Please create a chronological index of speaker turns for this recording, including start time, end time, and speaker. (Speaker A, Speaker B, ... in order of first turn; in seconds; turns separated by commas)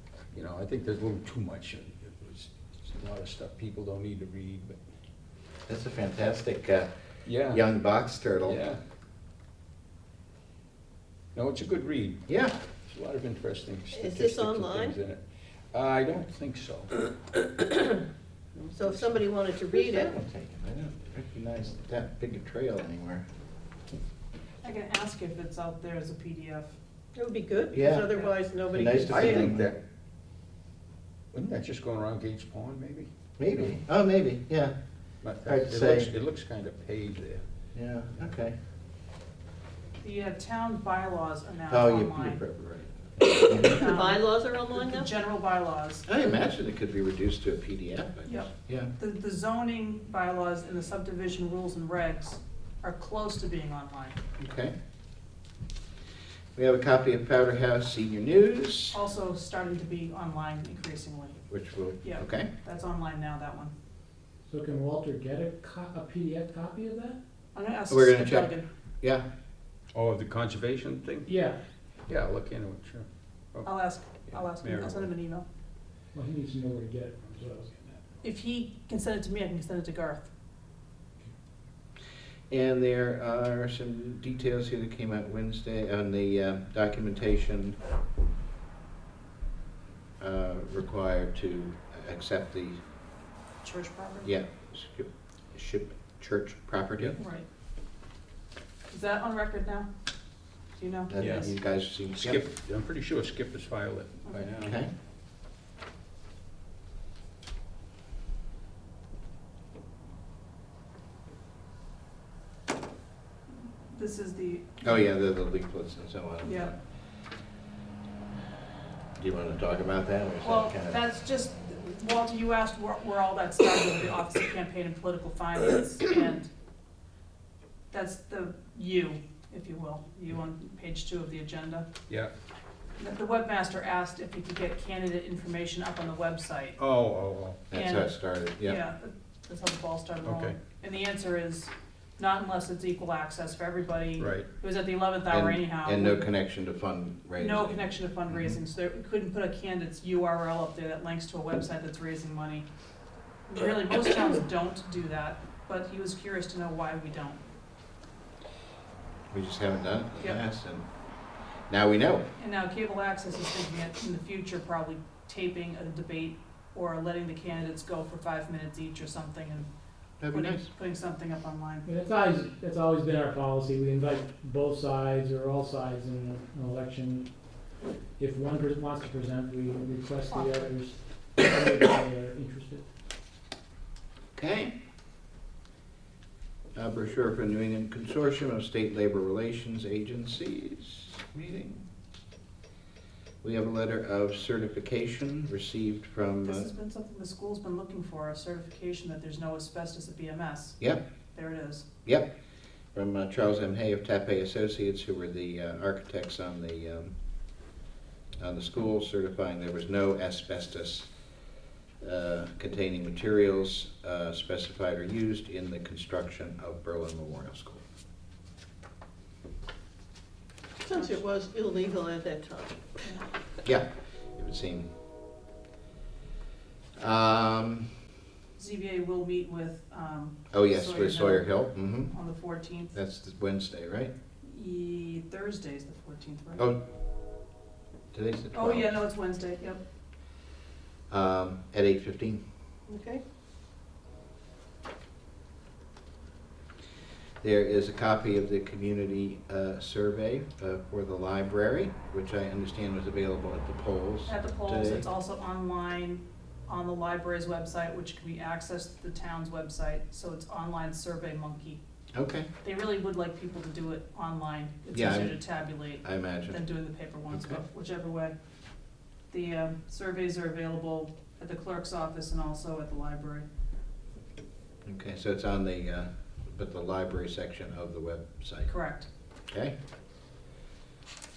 Speaker A: 0.3-4.8, Speaker B: 5.7-6.9, Speaker A: 7.2-7.6, Speaker B: 7.5-8.6, Speaker A: 8.4-8.8, Speaker A: 11.3-12.3, Speaker B: 12.3-12.6, Speaker A: 12.8-17.0, Speaker C: 13.9-15.0, Speaker A: 18.6-19.2, Speaker C: 18.7-20.1, Speaker B: 19.8-23.2, Speaker D: 24.6-26.7, Speaker C: 27.1-29.5, Speaker B: 27.7-28.1, Speaker B: 28.7-29.7, Speaker A: 29.1-29.8, Speaker A: 31.3-33.7, Speaker B: 33.4-34.7, Speaker A: 35.2-37.4, Speaker B: 35.4-36.1, Speaker B: 37.7-38.5, Speaker D: 40.0-42.4, Speaker B: 41.7-43.8, Speaker C: 43.5-45.1, Speaker D: 43.5-46.0, Speaker B: 46.1-48.9, Speaker D: 48.3-54.2, Speaker B: 54.4-54.7, Speaker B: 56.5-59.0, Speaker D: 58.9-61.4, Speaker B: 61.5-62.5, Speaker D: 62.0-63.7, Speaker E: 64.5-67.2, Speaker D: 67.5-68.7, Speaker B: 67.9-69.2, Speaker A: 69.9-71.3, Speaker E: 71.3-71.6, Speaker A: 72.1-73.7, Speaker D: 73.6-75.5, Speaker A: 74.3-75.0, Speaker E: 76.1-78.0, Speaker D: 78.2-80.3, Speaker B: 82.5-87.8, Speaker B: 90.2-92.8, Speaker D: 93.6-94.3, Speaker B: 94.2-97.2, Speaker D: 97.2-97.5, Speaker D: 98.9-99.9, Speaker D: 100.8-101.5, Speaker B: 101.1-102.4, Speaker A: 101.2-101.5, Speaker A: 102.2-104.8, Speaker B: 104.6-104.9, Speaker D: 113.5-115.0, Speaker B: 114.8-116.8, Speaker D: 116.4-116.7, Speaker B: 119.2-121.0, Speaker D: 120.4-126.5, Speaker D: 127.9-131.9, Speaker D: 133.0-136.8, Speaker A: 136.8-137.6, Speaker B: 137.7-138.8, Speaker D: 137.7-146.3, Speaker A: 140.2-140.6, Speaker A: 144.2-144.5, Speaker B: 145.3-148.6, Speaker D: 147.4-152.7, Speaker D: 153.5-157.4, Speaker B: 159.3-160.8, Speaker B: 161.7-162.3, Speaker D: 162.4-169.7, Speaker B: 170.2-170.7, Speaker D: 170.3-171.9, Speaker E: 171.8-177.6, Speaker E: 178.2-182.9, Speaker D: 180.3-180.7, Speaker B: 184.3-184.7, Speaker B: 186.7-191.8, Speaker B: 193.4-196.7, Speaker D: 196.4-200.8, Speaker D: 201.3-201.9, Speaker B: 202.0-202.3, Speaker B: 202.9-207.1, Speaker B: 208.4-211.1, Speaker B: 212.0-217.8, Speaker C: 220.8-223.0, Speaker B: 223.6-224.9, Speaker B: 227.0-227.9, Speaker D: 228.6-232.9, Speaker B: 230.5-232.1, Speaker B: 232.9-234.1, Speaker D: 234.4-236.7, Speaker B: 238.1-239.0, Speaker D: 238.5-239.8, Speaker B: 241.1-242.4, Speaker C: 242.9-243.2, Speaker B: 247.4-255.1, Speaker D: 254.3-261.8, Speaker B: 262.1-262.5, Speaker D: 262.6-268.3, Speaker B: 264.9-266.6, Speaker B: 267.3-267.6, Speaker D: 269.3-273.4, Speaker B: 274.8-278.7, Speaker D: 278.7-279.1, Speaker B: 279.5-279.7